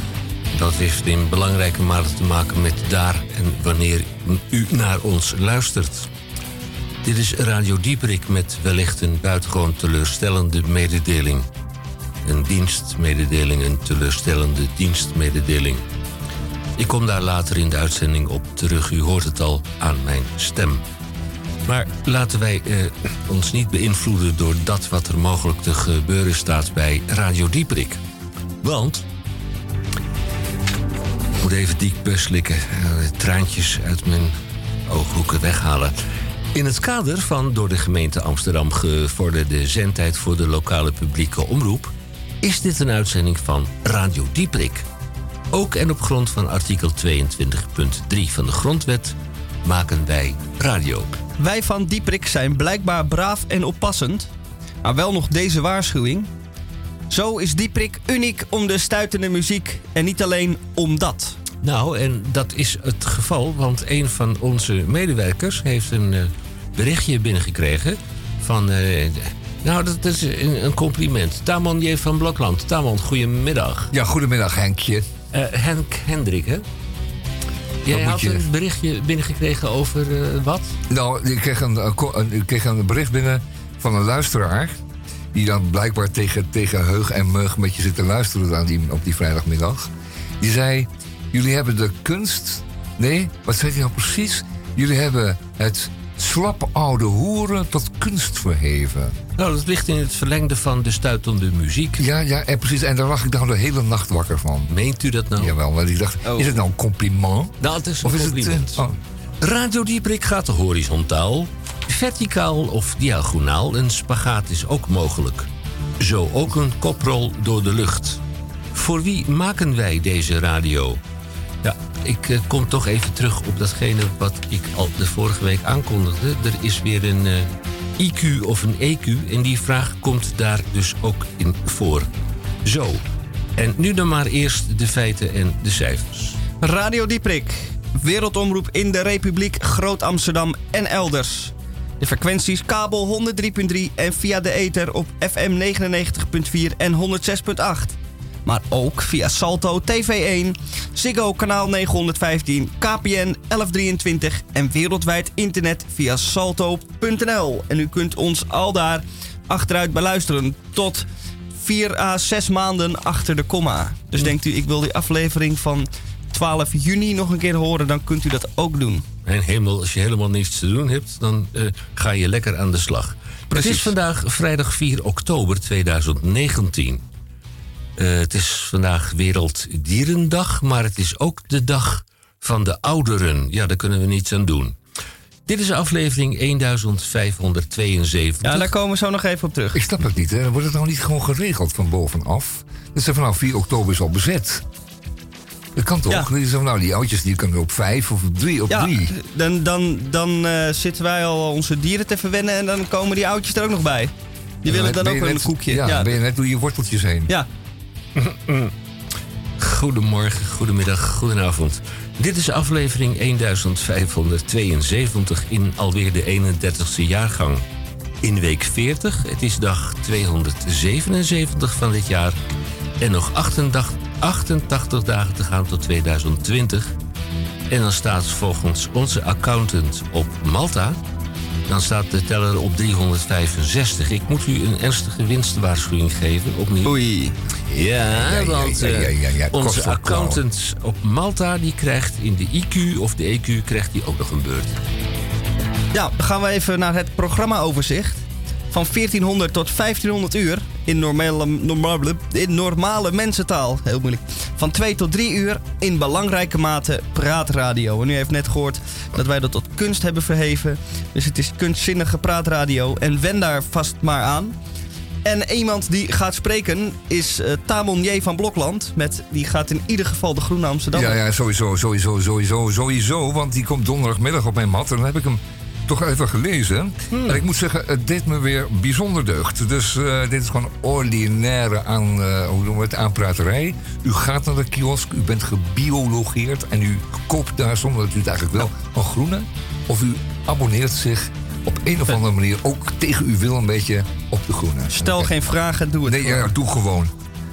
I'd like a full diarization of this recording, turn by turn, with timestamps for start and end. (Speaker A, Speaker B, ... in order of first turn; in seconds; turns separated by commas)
Speaker A: 0.5-6.1, Speaker A: 7.0-11.5, Speaker A: 12.2-15.8, Speaker A: 16.8-20.8, Speaker A: 21.6-28.0, Speaker A: 28.6-29.0, Speaker A: 31.4-34.3, Speaker A: 34.9-35.9, Speaker A: 36.5-44.9, Speaker A: 45.5-51.1, Speaker B: 51.4-54.3, Speaker B: 54.8-56.3, Speaker B: 57.1-61.4, Speaker A: 61.6-73.9, Speaker C: 73.9-75.1, Speaker A: 75.3-76.6, Speaker A: 77.8-80.7, Speaker C: 77.9-78.5, Speaker C: 80.9-84.8, Speaker C: 85.3-99.2, Speaker A: 99.3-102.0, Speaker C: 102.0-104.7, Speaker A: 104.7-105.5, Speaker C: 105.3-109.0, Speaker A: 107.6-108.8, Speaker A: 109.4-115.5, Speaker A: 116.0-118.2, Speaker A: 118.7-121.0, Speaker A: 121.6-132.1, Speaker A: 132.6-133.0, Speaker A: 133.6-136.4, Speaker B: 136.6-169.1, Speaker A: 169.2-177.0, Speaker B: 173.5-173.9, Speaker A: 178.0-184.8, Speaker A: 185.4-188.7, Speaker B: 188.4-189.8, Speaker C: 189.7-194.6, Speaker C: 195.7-199.1, Speaker B: 198.7-206.1, Speaker C: 204.7-207.3, Speaker A: 208.2-208.7, Speaker A: 209.6-217.6, Speaker A: 218.2-222.4, Speaker A: 223.0-226.9, Speaker A: 227.7-231.0, Speaker A: 231.7-237.0, Speaker B: 236.8-237.3, Speaker A: 237.7-244.8, Speaker C: 237.7-240.4, Speaker B: 245.9-264.6, Speaker B: 265.2-271.1, Speaker C: 270.9-295.3, Speaker A: 277.1-277.4, Speaker B: 294.9-296.5, Speaker C: 296.0-297.1